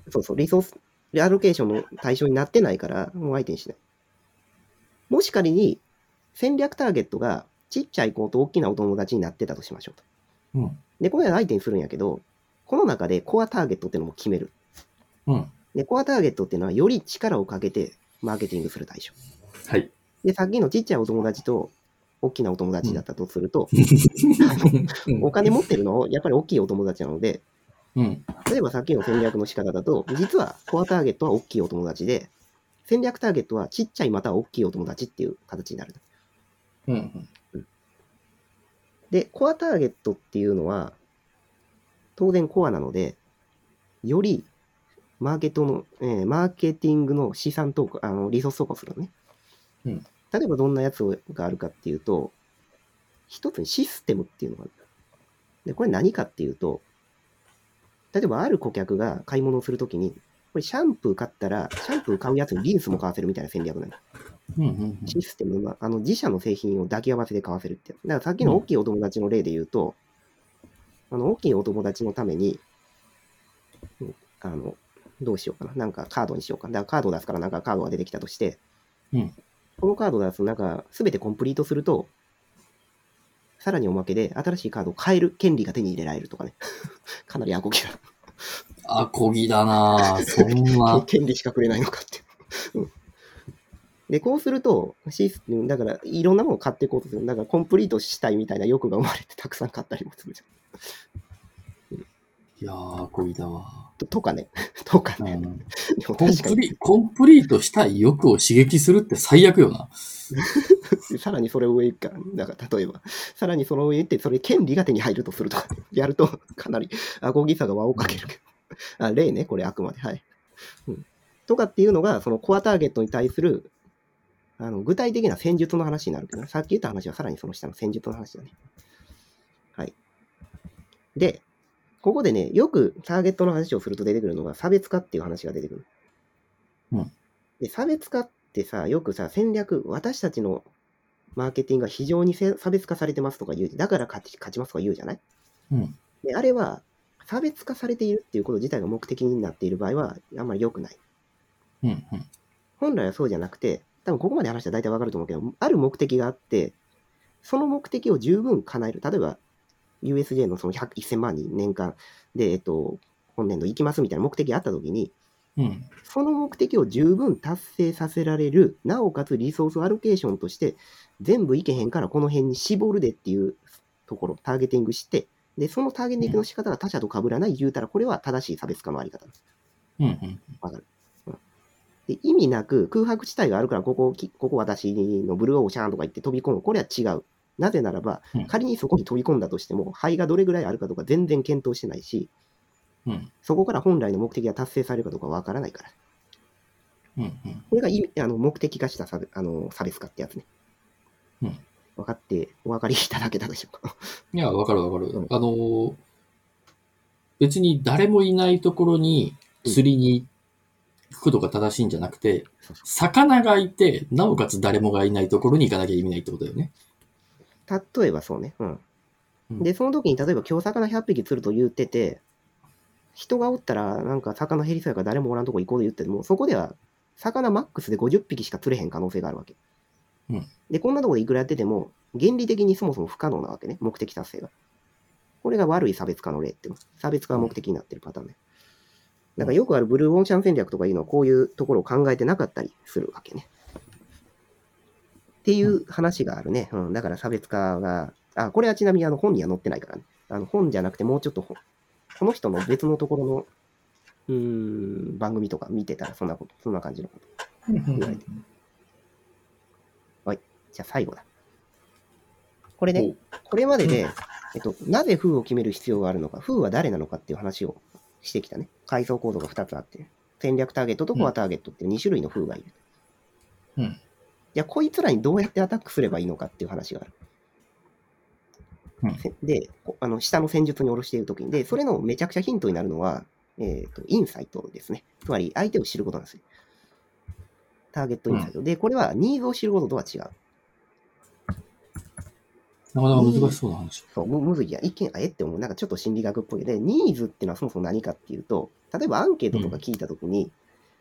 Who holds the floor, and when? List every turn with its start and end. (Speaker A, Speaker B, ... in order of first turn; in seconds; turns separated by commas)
Speaker A: 0.1-3.8, Speaker A: 5.1-5.8, Speaker A: 6.3-10.0, Speaker B: 10.5-10.8, Speaker A: 11.0-14.5, Speaker B: 15.3-15.5, Speaker A: 15.7-19.1, Speaker A: 20.2-23.7, Speaker B: 23.7-25.5, Speaker A: 24.4-27.4, Speaker B: 27.9-28.2, Speaker A: 28.4-32.3, Speaker A: 32.9-36.0, Speaker B: 36.9-37.3, Speaker A: 39.1-41.0, Speaker A: 42.2-43.2, Speaker A: 44.0-44.5, Speaker A: 45.2-49.1, Speaker A: 50.3-52.3, Speaker A: 53.3-54.7, Speaker A: 55.6-56.8, Speaker A: 58.1-64.0, Speaker B: 64.5-65.2, Speaker A: 65.1-70.0, Speaker A: 71.1-72.6, Speaker A: 74.0-78.6, Speaker A: 79.8-82.1, Speaker A: 83.6-86.5, Speaker A: 87.2-88.0, Speaker B: 88.8-91.0, Speaker A: 90.0-92.9, Speaker A: 94.1-100.5, Speaker B: 102.6-103.9, Speaker A: 104.0-106.7, Speaker B: 105.2-105.6, Speaker B: 106.2-109.9, Speaker A: 110.3-118.4, Speaker A: 119.0-120.2, Speaker A: 120.8-123.7, Speaker A: 124.6-128.5, Speaker A: 131.1-131.4, Speaker A: 132.0-135.8, Speaker A: 137.6-140.7, Speaker A: 141.3-145.2, Speaker B: 145.7-145.9, Speaker A: 146.2-151.0, Speaker B: 151.8-152.3, Speaker A: 152.8-156.8, Speaker A: 157.4-159.4, Speaker A: 160.0-165.1, Speaker B: 165.6-165.9, Speaker A: 166.0-179.3, Speaker B: 180.0-180.5, Speaker A: 180.6-181.4, Speaker A: 182.1-192.3, Speaker B: 193.1-193.3, Speaker A: 193.4-195.9, Speaker B: 197.2-197.7, Speaker A: 197.7-200.4, Speaker A: 202.0-204.1, Speaker B: 204.3-206.0, Speaker B: 207.4-210.3, Speaker B: 211.1-216.7, Speaker A: 217.7-218.8, Speaker A: 219.6-222.2, Speaker A: 223.2-229.6, Speaker A: 230.7-234.5, Speaker A: 235.4-238.3, Speaker A: 239.4-243.5, Speaker A: 245.4-251.6, Speaker A: 252.2-253.5, Speaker A: 254.3-257.2, Speaker B: 257.7-258.4, Speaker A: 257.9-258.2, Speaker A: 260.2-261.2, Speaker A: 262.8-272.7, Speaker A: 274.5-277.1, Speaker A: 279.2-286.4, Speaker A: 287.9-290.3, Speaker B: 292.9-294.0, Speaker A: 293.1-293.6, Speaker A: 294.1-300.5, Speaker B: 299.5-299.8